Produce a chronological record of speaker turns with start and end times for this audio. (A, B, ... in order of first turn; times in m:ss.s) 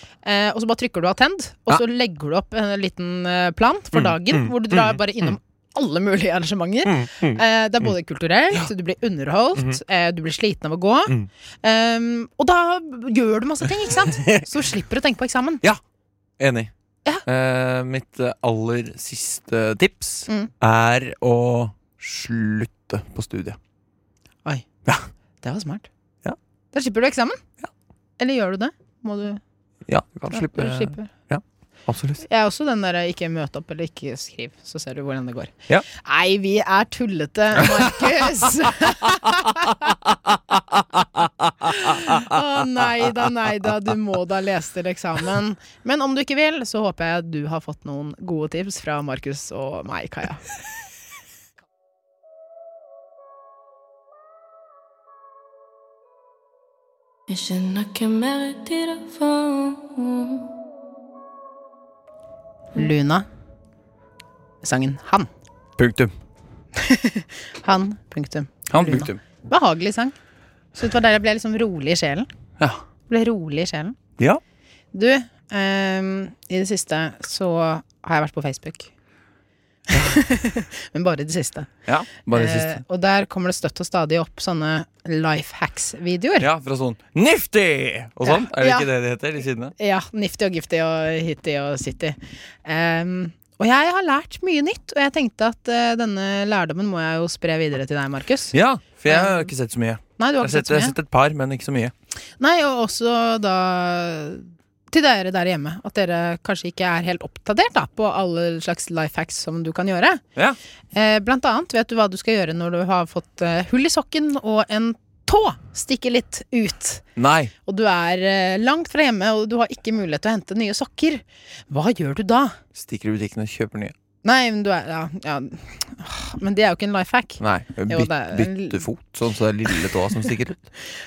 0:00.2-0:15.6 A
0:03.9-0:05.3 B
0:06.8-0:07.8 B
0:13.8-0:14.5 B
0:16.4-0:16.7 B
0:17.3-0:23.6 B
0:25.4-0:25.9 A
0:26.7-0:27.4 A
0:28.2-0:29.4 A
0:29.9-0:32.2 B
0:30.3-0:31.1 A
0:32.2-0:40.0 A
0:37.6-0:38.1 B
0:38.9-0:42.8 B
0:41.6-0:50.4 A
0:57.3-1:00.5 C
1:02.8-1:03.3 A
1:04.6-1:05.3 A
1:05.8-1:06.1 B
1:06.8-1:10.2 A
1:08.7-1:09.2 B
1:10.8-1:12.3 A
1:13.1-1:14.0 A
1:14.9-1:18.9 A
1:19.9-1:21.7 A
1:19.9-1:20.2 B
1:21.9-1:22.8 B
1:22.3-1:26.5 A
1:26.4-1:29.7 B
1:28.2-1:28.9 A
1:29.8-1:38.5 A
1:38.5-1:41.9 B
1:39.1-1:39.5 A
1:40.2-1:41.0 A
1:42.4-1:50.2 A
1:50.9-1:57.1 A
1:57.2-1:57.5 B
1:57.7-2:02.6 A
2:02.8-2:03.9 B
2:04.2-2:08.8 A
2:07.4-2:10.6 B